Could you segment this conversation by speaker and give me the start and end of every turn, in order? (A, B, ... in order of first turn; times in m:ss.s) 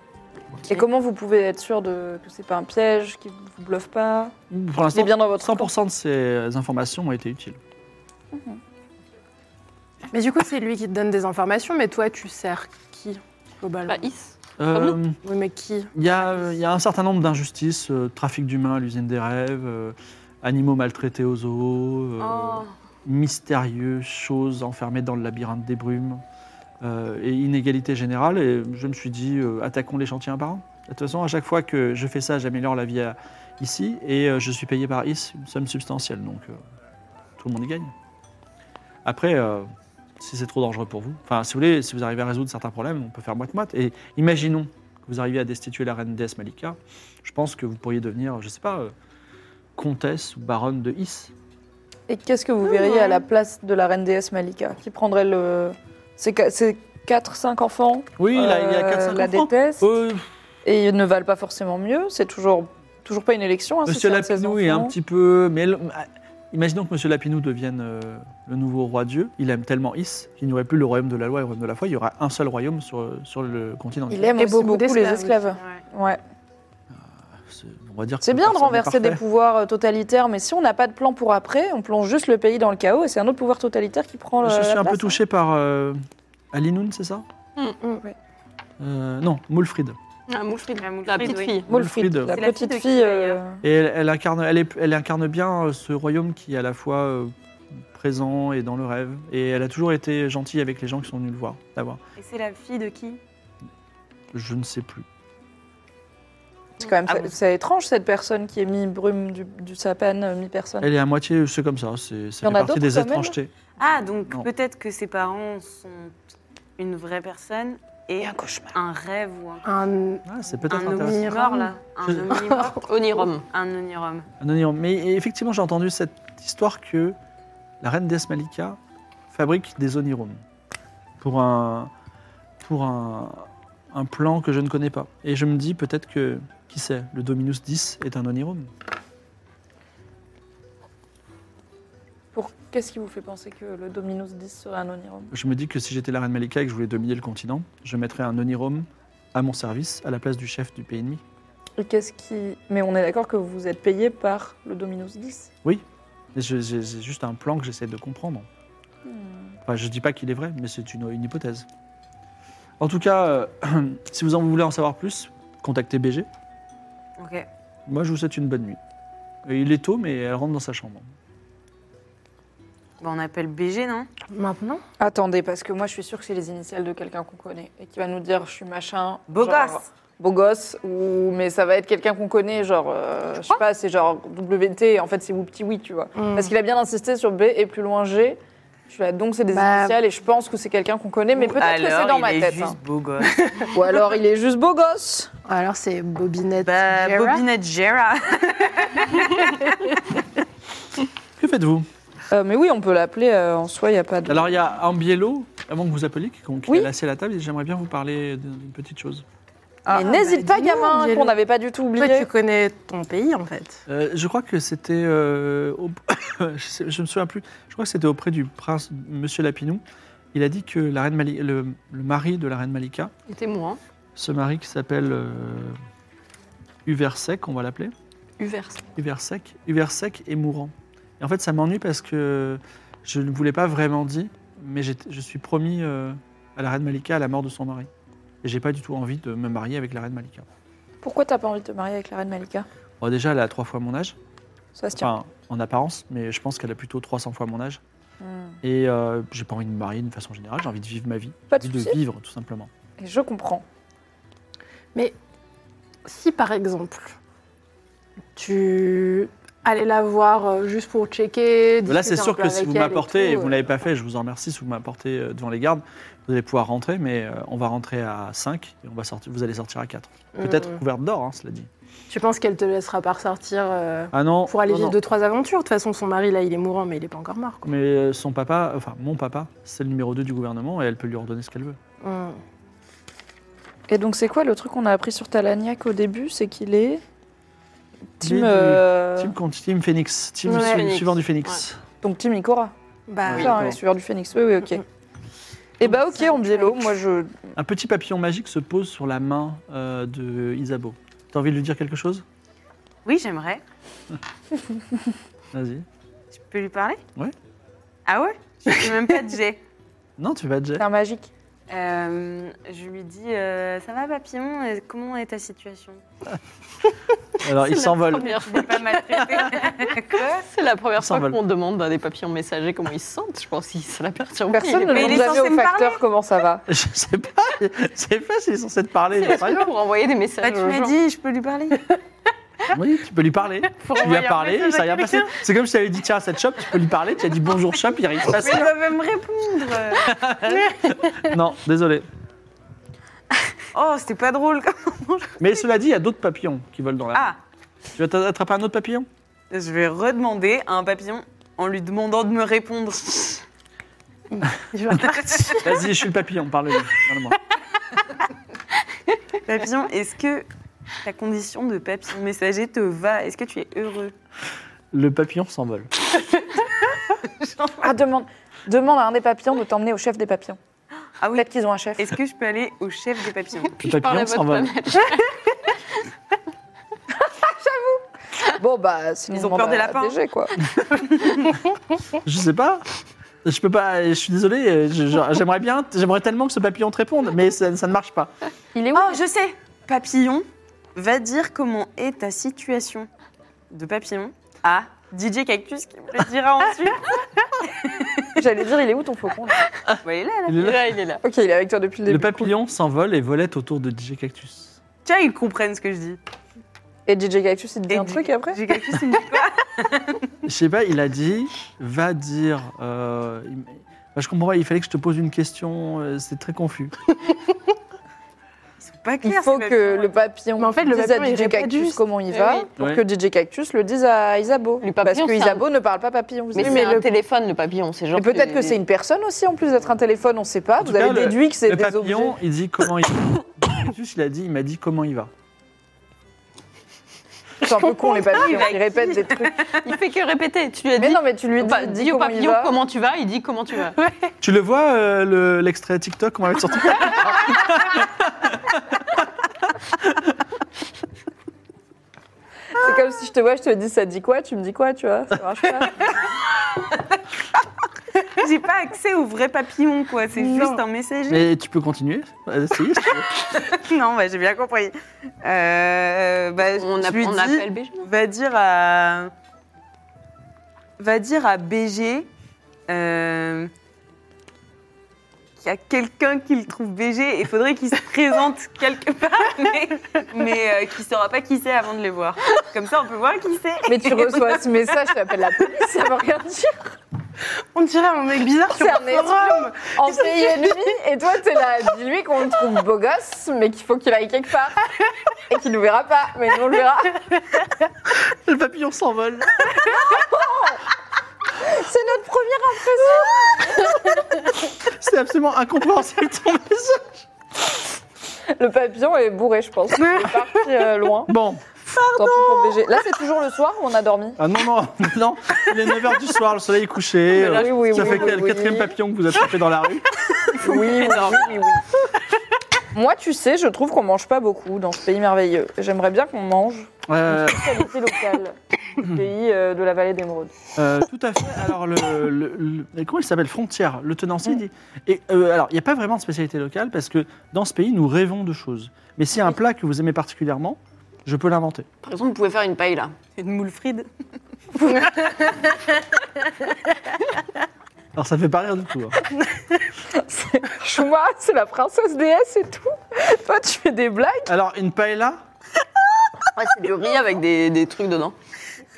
0:00.7-0:04.3 A
0:04.5-0:07.6 B
0:04.9-0:05.7 A
0:08.3-0:08.6 A
0:10.1-0:14.0 C
0:13.9-0:15.0 D
0:14.6-0:15.2 B
0:15.2-0:16.0 C
0:16.0-0:26.2 B
0:22.2-0:22.7 E
0:26.8-0:36.6 B
0:37.4-0:37.9 B
0:39.0-0:48.9 B
0:49.8-0:51.3 B
0:52.1-0:59.9 A
0:58.2-1:00.3 B
1:00.6-1:04.9 A
1:03.9-1:14.3 B
1:14.1-1:16.2 A
1:14.3-1:15.4 C
1:16.9-1:19.2 B
1:18.2-1:25.2 A
1:24.4-1:26.0 B
1:26.5-1:27.2 B
1:28.8-1:30.0 B
1:30.3-1:31.7 D
1:30.8-1:31.6 E
1:31.7-1:33.6 A
1:31.7-1:32.4 B
1:32.2-1:33.4 E
1:33.6-1:42.0 B
1:42.2-1:43.2 E
1:44.3-1:45.1 B
1:46.8-1:50.9 A
1:47.1-1:47.3 E
1:50.8-1:53.5 B
1:52.4-1:53.4 A
1:53.8-1:56.1 E
1:56.8-1:59.7 E
1:59.6-2:01.7 C
2:00.3-2:01.3 B
2:00.7-2:04.3 E
2:02.3-2:02.7 C
2:02.6-2:03.4 D
2:04.4-2:07.2 B
2:07.8-2:08.8 B
2:09.3-2:10.4 B
2:11.2-2:11.9 B
2:12.6-2:18.7 B
2:22.3-2:25.3 A
2:25.3-2:31.2 B
2:31.8-2:35.5 A
2:35.6-2:38.5 B
2:39.0-2:39.6 A
2:39.6-2:41.7 B
2:42.8-2:46.3 B
2:47.2-2:47.5 E
2:47.9-2:48.8 B
2:49.5-2:51.1 B
2:53.0-2:54.1 E
2:54.3-2:54.8 C
2:55.0-3:12.8 A
2:59.3-2:59.8 E
3:06.2-3:06.5 C
3:09.5-3:10.0 C
3:11.4-3:13.6 E
3:13.3-3:13.7 C
3:13.7-3:15.3 A
3:15.5-3:17.4 C
3:16.6-3:20.0 E
3:21.4-3:21.9 B
3:22.3-3:24.5 A
3:24.3-3:29.2 B
3:29.9-3:32.3 A
3:29.9-3:31.4 C
3:32.0-3:33.8 C
3:33.9-3:39.8 B
3:40.3-3:43.1 B
3:43.3-3:43.8 D
3:44.2-3:45.8 B
3:46.8-3:47.9 B
3:48.4-3:48.9 D
3:49.0-3:57.9 B
3:58.4-4:00.5 B
4:01.0-4:02.7 A
4:03.0-4:04.2 B
4:04.8-4:05.1 A
4:05.0-4:07.8 B
4:08.2-4:08.6 A
4:08.6-4:12.7 B
4:11.5-4:12.0 A
4:13.0-4:13.6 A
4:16.0-4:17.2 C
4:18.4-4:23.7 C
4:21.9-4:31.7 B
4:30.4-4:30.8 C
4:32.1-4:37.6 C
4:34.1-4:35.0 B
4:37.6-4:41.8 B
4:42.0-4:42.4 C
4:43.9-4:47.0 A
4:48.2-4:49.3 A
4:48.2-4:51.8 B
4:50.5-4:50.9 C
4:50.5-4:51.6 D
4:52.0-4:52.7 A
4:53.1-4:53.6 C
4:53.3-4:53.8 B
4:53.3-4:54.8 A
4:55.8-4:57.5 A
4:55.8-4:56.9 C
4:57.6-5:02.2 B
5:03.0-5:03.6 E
5:05.5-5:05.9 B
5:06.3-5:07.0 E
5:08.1-5:09.6 E
5:10.2-5:10.8 B
5:10.8-5:11.3 A
5:11.7-5:16.0 E
5:17.4-5:18.5 B
5:17.5-5:25.3 D
5:18.1-5:20.5 E
5:21.0-5:21.4 B
5:24.5-5:26.7 A
5:24.9-5:26.0 E
5:26.7-5:29.7 B
5:29.3-5:31.0 D
5:30.4-5:32.0 E
5:32.7-5:38.7 B
5:33.8-5:35.2 C
5:38.3-5:40.1 E
5:40.0-5:42.1 B
5:43.7-5:45.5 E
5:45.4-5:47.3 B
5:48.0-5:49.1 B
5:49.5-5:53.4 E
5:54.3-5:55.7 C
5:54.9-5:57.4 B
5:55.3-5:55.6 E
5:59.4-6:00.5 E
6:01.0-6:04.1 E
6:04.9-6:05.9 B
6:07.2-6:07.7 E
6:07.8-6:10.6 A
6:11.2-6:11.5 E
6:11.4-6:12.1 A
6:12.0-6:13.8 E
6:13.7-6:15.5 D
6:13.8-6:14.8 B
6:17.2-6:20.6 A
6:19.3-6:20.2 E
6:20.7-6:21.6 E
6:22.2-6:22.8 B
6:23.4-6:28.3 B
6:28.7-6:29.2 A
6:28.9-6:33.1 E
6:33.7-6:38.4 E
6:38.4-6:39.6 A
6:39.9-6:40.8 B
6:40.0-6:40.8 E
6:40.6-6:41.2 D
6:41.2-6:42.5 A
6:42.1-6:44.8 B
6:45.0-6:46.2 E
6:47.1-6:48.6 A
6:47.9-6:50.3 E
6:50.4-6:56.9 B
6:58.8-7:00.1 E
6:59.2-7:07.0 A
7:00.6-7:02.0 C
7:02.3-7:02.7 D
7:02.8-7:03.0 B
7:04.8-7:05.6 D
7:06.6-7:08.8 D
7:06.6-7:07.1 C
7:08.1-7:12.4 A
7:10.8-7:15.3 B
7:17.6-7:19.6 A
7:18.2-7:19.8 E
7:19.8-7:24.0 D
7:21.0-7:22.8 A
7:24.4-7:29.2 B
7:30.0-7:30.3 B
7:32.8-7:36.1 A
7:38.2-7:41.5 E
7:41.3-7:43.3 B
7:43.4-7:49.3 E
7:46.7-7:48.1 D
7:51.0-7:52.3 E
7:52.9-7:53.7 E
7:55.6-8:04.7 E
8:03.9-8:07.0 A
8:07.7-8:10.6 C
8:08.7-8:17.4 A
8:18.1-8:20.0 B
8:20.0-8:20.8 A
8:21.6-8:24.2 A
8:24.8-8:27.3 B
8:28.5-8:31.3 A
8:31.3-8:31.7 B
8:32.1-8:34.4 A
8:34.4-8:40.2 B
8:37.3-8:38.4 D
8:37.4-8:39.0 A
8:40.5-8:41.6 D
8:40.5-8:41.9 A
8:42.9-8:50.5 A
8:47.1-8:47.8 B
8:50.8-9:01.9 B
9:02.0-9:03.2 D
9:03.4-9:04.1 E
9:04.8-9:05.6 E
9:08.2-9:09.2 B
9:10.1-9:14.5 A
9:14.5-9:15.4 B
9:16.6-9:18.4 D